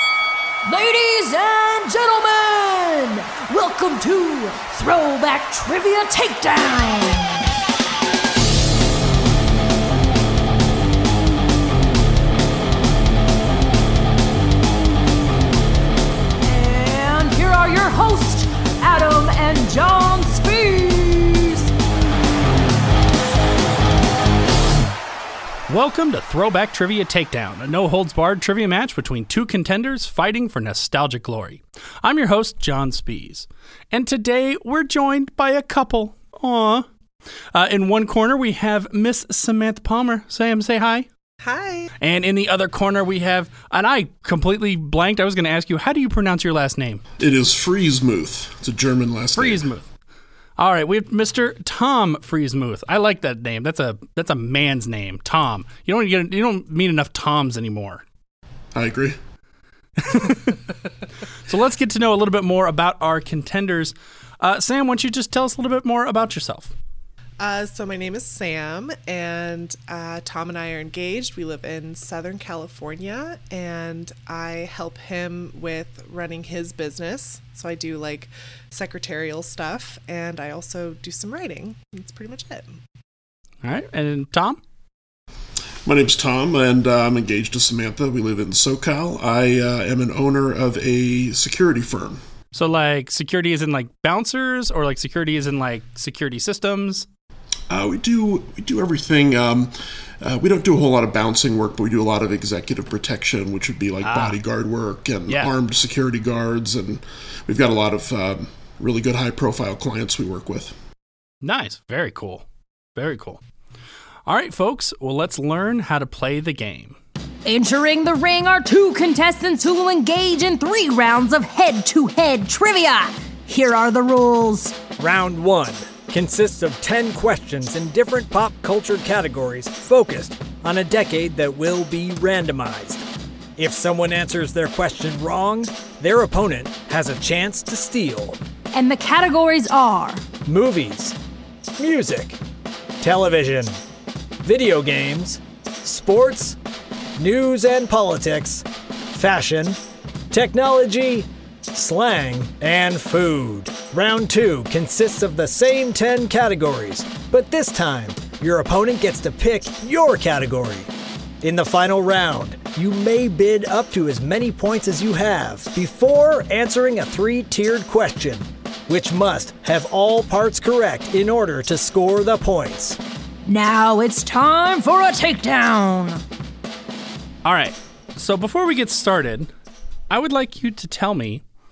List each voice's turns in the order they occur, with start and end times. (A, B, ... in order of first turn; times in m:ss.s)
0:00.6-0:07.5 A
0:16.4-0:21.7 A
0:25.7-0:36.9 B
0:37.5-0:41.1 B
0:41.4-0:41.9 C
0:42.0-0:47.0 B
0:47.2-0:49.6 D
0:49.3-0:49.9 B
0:50.6-0:58.0 B
0:58.7-0:59.2 D
1:00.0-1:00.6 B
1:01.4-1:06.7 B
1:07.4-1:22.7 C
1:23.6-1:24.6 B
1:25.8-1:32.2 D
1:32.5-1:37.0 B
1:37.7-1:50.7 D
1:44.0-1:44.4 B
1:45.3-1:45.5 B
1:51.4-1:52.4 B
1:53.0-1:53.4 B
1:54.2-1:57.0 B
1:57.4-2:04.9 A
2:04.9-2:18.4 E
2:18.7-2:20.2 A
2:20.4-2:21.2 E
2:21.8-2:22.4 E
2:23.0-2:23.8 E
2:24.4-2:26.6 E
2:27.2-2:29.8 E
2:30.3-2:40.9 E
2:41.4-2:53.0 E
2:53.4-2:56.2 A
2:57.4-2:59.5 B
3:00.1-3:01.4 B